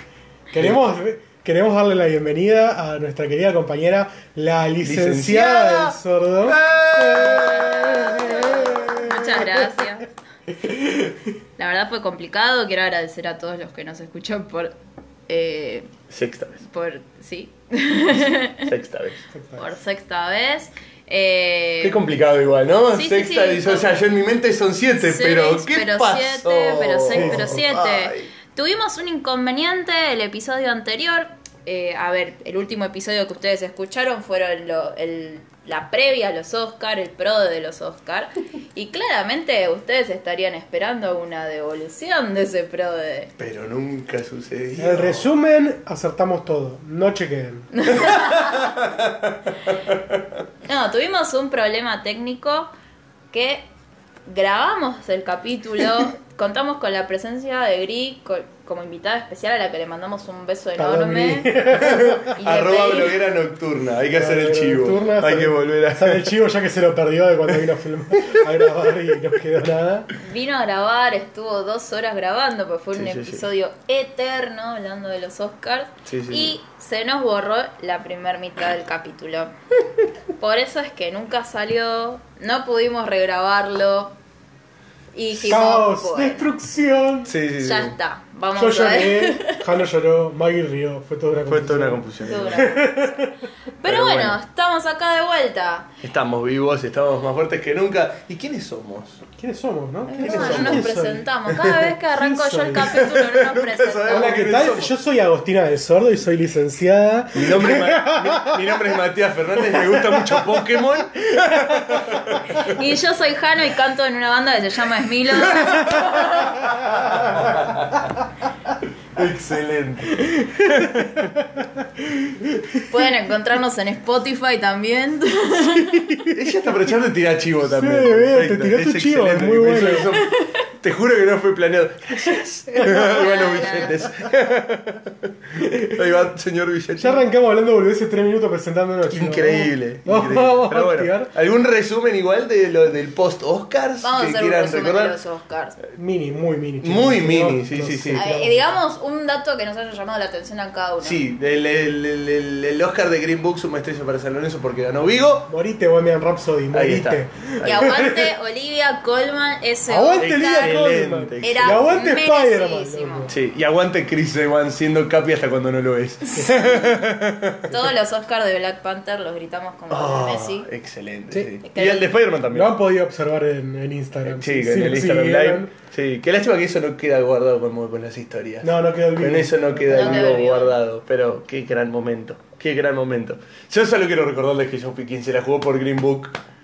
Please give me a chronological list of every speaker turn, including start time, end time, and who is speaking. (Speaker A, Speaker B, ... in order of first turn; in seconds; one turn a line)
Speaker A: 0.5-9.5
Speaker B: 4.8-9.0
Speaker C: 7.1-10.1
Speaker A: 10.5-11.3
Speaker C: 11.6-14.7
Speaker C: 15.3-15.9
Speaker B: 16.1-16.6
Speaker C: 16.6-18.7
Speaker B: 18.6-19.2
Speaker A: 19.3-19.7
Speaker C: 19.6-22.0
Speaker B: 21.8-28.3
Speaker C: 22.9-24.0
Speaker C: 25.0-43.3
Speaker A: 27.1-27.6
Speaker B: 43.4-45.3
Speaker A: 44.8-47.7
Speaker C: 47.7-48.8
Speaker B: 47.9-50.2
Speaker C: 50.6-52.7
Speaker C: 53.3-53.7
Speaker C: 54.3-61.7
Speaker A: 60.8-62.3
Speaker B: 61.7-66.3
Speaker C: 62.4-63.2
Speaker A: 64.1-70.1
Speaker C: 70.2-79.5
Speaker B: 72.9-73.4
Speaker B: 76.1-76.6
Speaker C: 80.4-84.2
Speaker C: 85.1-86.5
Speaker A: 85.3-87.3
Speaker B: 87.2-88.0
Speaker C: 87.6-89.6
Speaker A: 88.6-93.3
Speaker B: 91.5-92.7
Speaker C: 92.2-95.9
Speaker B: 93.8-94.4
Speaker B: 96.0-99.2
Speaker A: 99.4-101.2
Speaker C: 100.1-104.4
Speaker B: 100.1-100.9
Speaker B: 101.5-101.8
Speaker A: 102.1-103.0
Speaker B: 102.8-104.9
Speaker A: 104.1-109.0
Speaker B: 107.3-112.8
Speaker A: 109.6-110.7
Speaker A: 111.5-112.3
Speaker C: 112.5-116.7
Speaker B: 115.4-116.0
Speaker A: 116.6-117.7
Speaker B: 116.6-118.2
Speaker B: 119.2-121.2
Speaker A: 120.1-122.8
Speaker C: 122.9-126.2
Speaker A: 125.9-126.4
Speaker B: 126.3-137.2
Speaker A: 127.7-130.2
Speaker C: 130.1-130.6
Speaker C: 132.3-134.1
Speaker A: 135.6-136.0
Speaker A: 137.0-141.3
Speaker B: 139.1-145.2
Speaker C: 144.0-145.8
Speaker A: 146.0-148.8
Speaker B: 146.8-148.2
Speaker C: 148.2-151.2
Speaker B: 151.0-155.5
Speaker A: 155.5-158.3
Speaker B: 156.7-157.9
Speaker C: 157.6-160.8
Speaker A: 159.9-163.3
Speaker B: 160.2-162.0
Speaker C: 161.4-163.3
Speaker B: 163.2-167.8
Speaker C: 166.3-167.0
Speaker A: 166.4-167.0
Speaker C: 167.7-170.7
Speaker B: 169.9-172.8
Speaker C: 171.6-172.1
Speaker A: 172.5-175.7
Speaker B: 174.2-186.4
Speaker A: 178.6-180.4
Speaker C: 179.9-180.8